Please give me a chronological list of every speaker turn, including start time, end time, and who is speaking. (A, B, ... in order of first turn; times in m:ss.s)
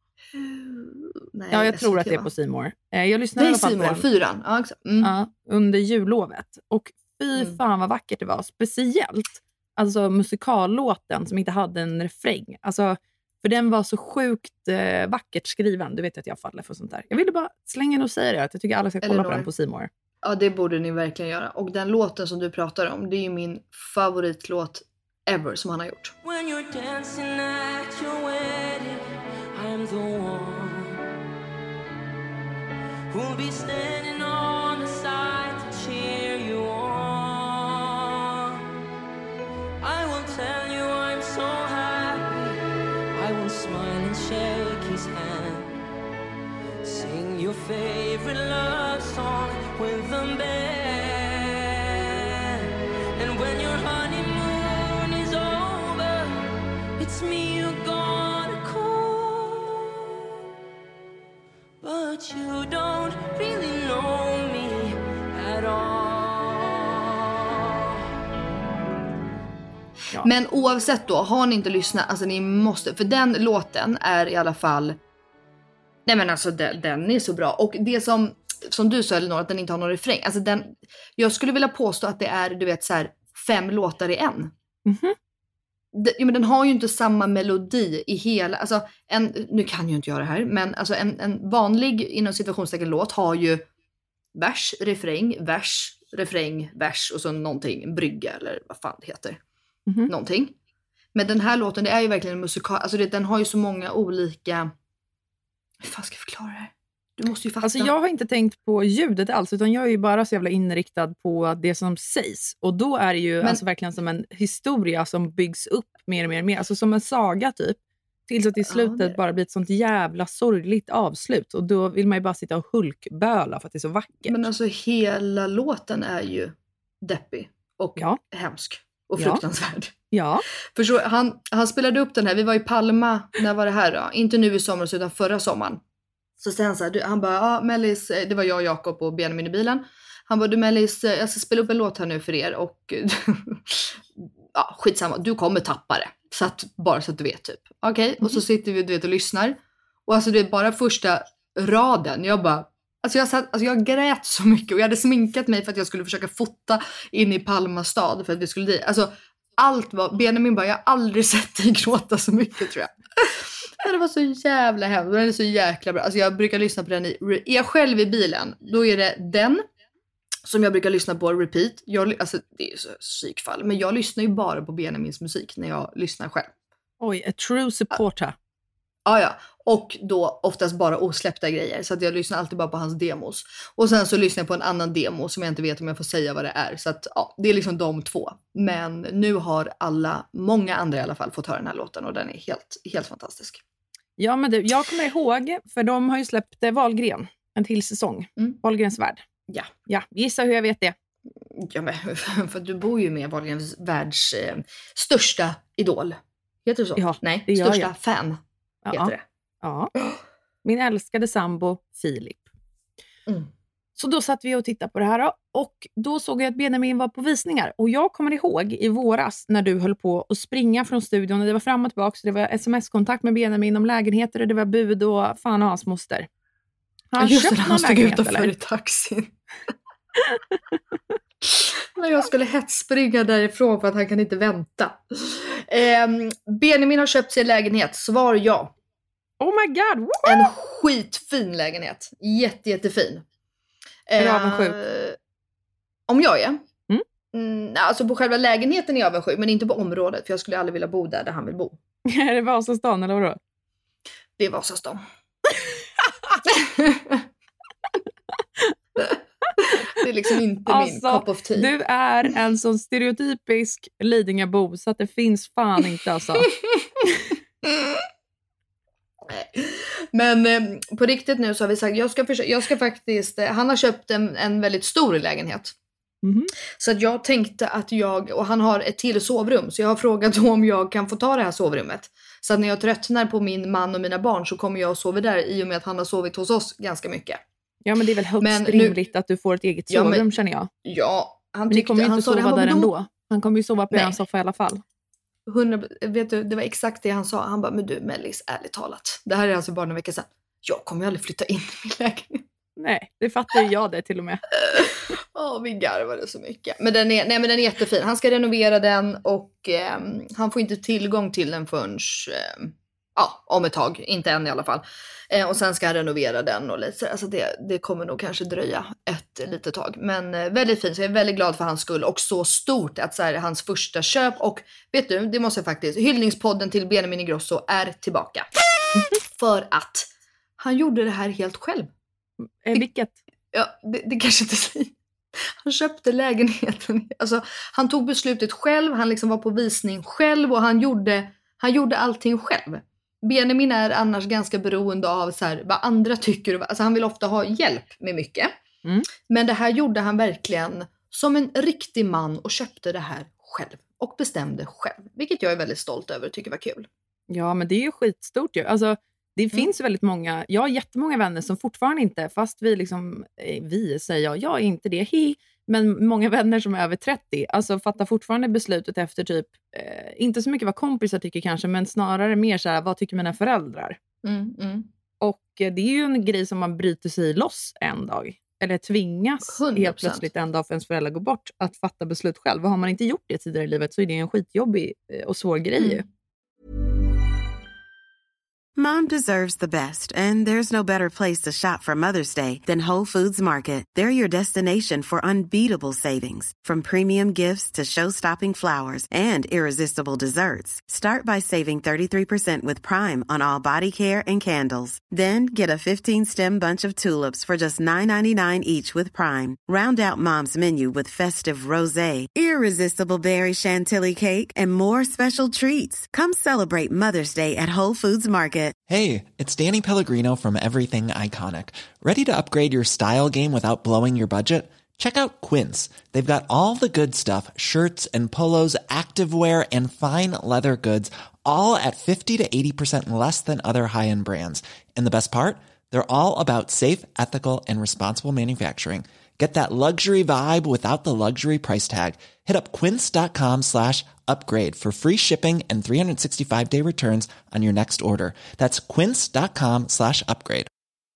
0:00.3-0:02.3 A
0:01.5-0:04.0 B
0:03.4-0:05.1 A
0:05.0-0:19.9 B
0:19.0-0:19.5 A
0:20.2-0:26.1 A
0:26.2-0:31.0 C
0:33.1-0:38.6 C
0:39.8-0:42.5 C
0:43.1-0:45.7 C
0:46.8-1:00.1 C
1:01.8-1:07.8 C
1:10.2-1:15.0 A
1:16.0-1:24.5 A
1:24.8-1:25.2 B
1:25.9-1:33.6 A
1:34.4-1:39.4 A
1:40.1-1:40.5 A
1:41.1-1:44.7 A
1:45.8-1:47.9 A
1:47.6-2:04.5 B
1:58.6-1:59.2 A
2:04.2-2:09.9 A
2:10.1-2:10.4 B
2:10.7-2:15.8 A
2:16.4-2:23.9 A
2:24.5-2:49.6 A
2:50.4-2:56.5 A
2:57.0-2:58.4 B
2:59.0-3:13.6 A
3:14.2-3:19.2 B
3:19.9-3:20.9 B
3:21.5-3:28.4 A
3:27.0-3:27.9 B
3:28.8-3:29.9 B
3:28.9-3:29.2 A
3:30.6-3:32.4 B
3:34.0-3:46.3 B
3:47.1-3:48.5 B
3:47.2-3:49.3 A
3:50.3-3:50.8 B
3:51.4-3:58.7 A
3:59.4-4:00.5 B
4:00.2-4:03.2 A
4:04.1-4:05.2 A
4:04.2-4:04.8 B
4:06.1-4:06.6 A
4:07.3-4:11.8 A
4:12.1-4:13.4 B
4:14.4-4:15.0 A
4:16.5-4:17.2 A
4:19.0-4:21.7 A
4:20.7-4:26.5 B
4:26.5-4:26.8 A
4:27.6-4:28.0 A
4:29.3-4:35.7 A
4:36.2-4:36.5 B
4:36.8-4:47.4 A
4:47.8-4:50.7 B
4:48.4-4:49.0 A
4:49.9-4:50.2 A
4:50.8-4:52.9 A
4:51.7-4:54.8 B
4:55.5-5:02.4 A
5:02.8-5:04.4 B
5:04.6-5:31.9 A
5:32.6-5:33.2 B
5:33.5-5:48.5 A
5:49.3-5:56.9 A
5:57.3-6:14.0 B
6:14.2-6:14.9 A
6:15.2-6:26.0 B
6:19.5-6:20.3 A
6:25.8-6:26.0 A
6:28.8-6:58.8 D
6:58.9-7:30.7 E